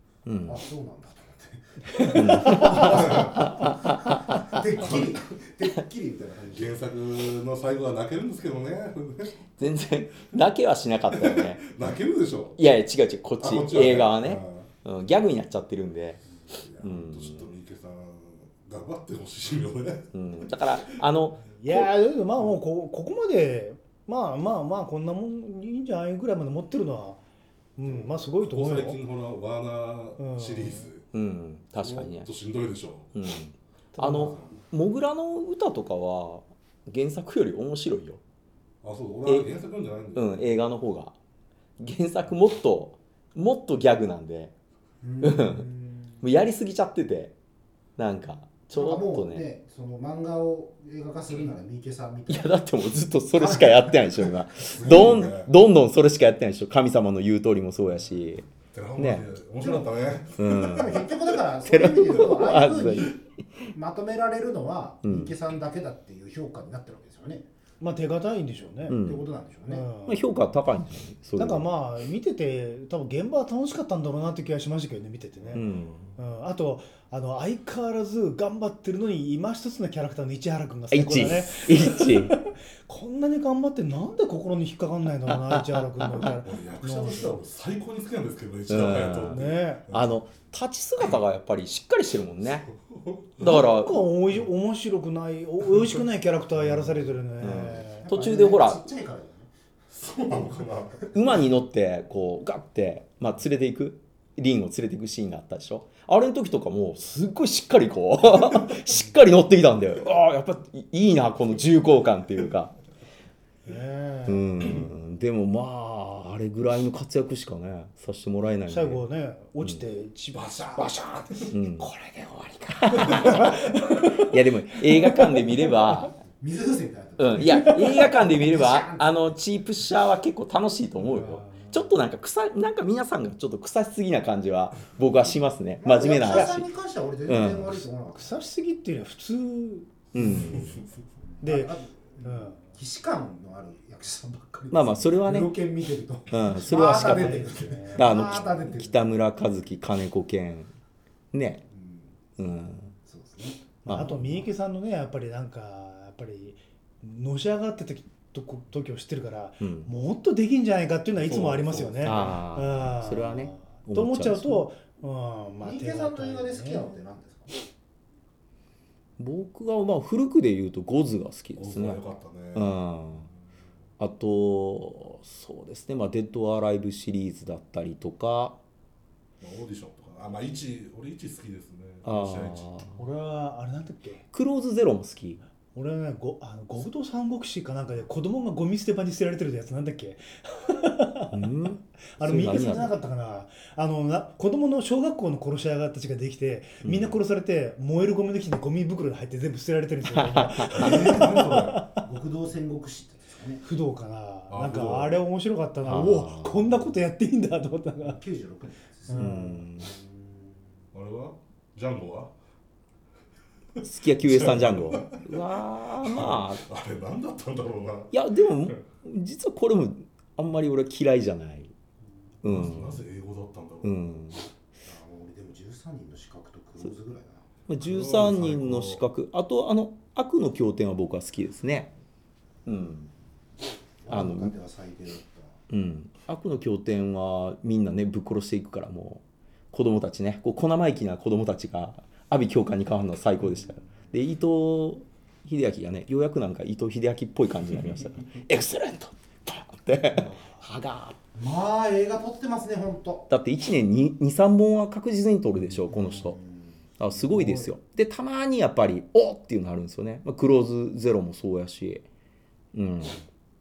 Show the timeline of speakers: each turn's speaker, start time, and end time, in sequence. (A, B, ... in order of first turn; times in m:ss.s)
0:00.3-0:00.6 A
0:00.4-0:06.7 B
0:02.0-0:02.9 C
0:02.1-0:04.6 A
0:02.8-0:03.3 D
0:04.8-0:05.2 D
0:06.5-0:09.4 D
0:09.6-0:11.6 A
0:11.1-0:12.6 D
0:12.6-0:16.2 A
0:13.4-0:14.7 D
0:16.5-0:20.6 D
0:16.8-0:17.5 A
0:20.1-0:21.8 A
0:21.6-0:27.2 C
0:27.8-0:29.0 C
0:27.9-0:31.1 D
0:30.2-0:30.9 C
0:31.1-0:32.3 A
0:31.8-0:33.1 D
0:33.2-0:38.2 A
0:34.0-0:34.4 C
0:34.1-0:34.6 D
0:38.8-0:40.5 D
0:40.2-0:41.2 A
0:41.8-0:44.5 A
0:45.0-0:46.2 B
0:45.2-0:45.6 A
0:46.2-0:47.3 A
0:48.0-0:49.4 A
0:48.7-0:52.7 B
0:52.3-0:58.5 A
0:53.4-0:54.3 B
0:54.7-0:55.5 D
0:58.7-1:01.1 D
0:59.0-0:59.3 A
0:59.6-0:59.9 B
1:00.4-1:01.0 A
1:00.4-1:03.2 B
1:01.6-1:03.2 A
1:03.7-1:07.5 B
1:05.0-1:05.3 A
1:07.8-1:09.0 C
1:08.9-1:09.2 A
1:09.0-1:09.9 B
1:09.7-1:10.2 C
1:10.1-1:11.7 A
1:11.4-1:15.7 C
1:15.5-1:16.1 A
1:16.2-1:27.4 C
1:20.9-1:22.4 A
1:25.3-1:26.3 A
1:26.2-1:30.2 D
1:28.7-1:29.4 A
1:29.3-1:29.8 C
1:29.9-1:32.7 A
1:32.7-1:33.6 D
1:33.4-1:34.0 A
1:33.4-1:38.1 C
1:36.6-1:37.0 D
1:37.4-1:38.8 A
1:38.0-1:39.5 B
1:39.9-1:41.2 D
1:40.2-1:40.6 B
1:41.1-1:52.7 A
1:53.7-1:54.8 C
1:54.3-1:59.0 A
1:58.7-2:06.0 C
2:01.5-2:01.9 A
2:02.8-2:03.6 A
2:04.2-2:06.2 A
2:06.4-2:09.2 B
2:07.2-2:16.7 A
2:11.0-2:11.9 C
2:15.8-2:18.3 B
2:16.2-2:16.6 C
2:17.3-2:17.9 A
2:18.1-2:19.9 C
2:20.1-2:20.8 A
2:20.2-2:20.8 D
2:21.3-2:29.0 B
2:21.4-2:22.6 C
2:24.7-2:25.5 A
2:26.3-2:30.7 A
2:26.6-2:28.2 C
2:31.3-2:31.6 A
2:31.7-2:32.2 B
2:32.4-2:32.9 A
2:33.0-2:33.7 B
2:33.8-2:34.5 A
2:33.8-2:47.0 C
2:39.6-2:39.9 A
2:41.2-2:42.4 D
2:42.0-2:44.7 A
2:45.6-2:47.5 B
2:49.2-2:52.0 A
2:51.6-2:52.8 D
2:52.6-2:53.3 A
2:54.0-2:58.6 A
2:59.4-3:02.8 D
3:02.0-3:03.0 A
3:03.0-3:04.2 C
3:04.3-3:05.4 A
3:05.7-3:11.4 C
3:11.3-3:13.0 A
3:12.2-3:22.0 C
3:16.8-3:17.2 A
3:20.1-3:21.0 A
3:20.6-3:21.8 D
3:21.2-3:23.6 B
3:23.6-3:28.2 C
3:24.5-3:25.2 D
3:25.8-3:26.9 A
3:28.0-3:29.3 B
3:29.1-3:29.6 C
3:29.1-3:29.9 A
3:30.0-3:30.5 B
3:30.9-3:32.3 D
3:33.8-3:35.4 D
3:33.8-3:36.6 A
3:36.0-3:38.1 D
3:38.1-3:41.7 A
3:42.4-3:43.0 A
3:42.4-3:44.0 D
3:43.8-3:44.5 A
3:44.8-3:47.5 B
3:47.7-3:51.9 A
3:47.8-3:49.0 D
3:52.7-3:53.1 A
3:54.0-3:55.6 B
3:54.1-3:54.5 A
3:55.7-4:11.2 A
4:11.3-4:13.3 B
4:13.3-4:16.4 A
4:15.9-4:17.7 B
4:17.0-4:22.0 A
4:22.7-4:23.2 A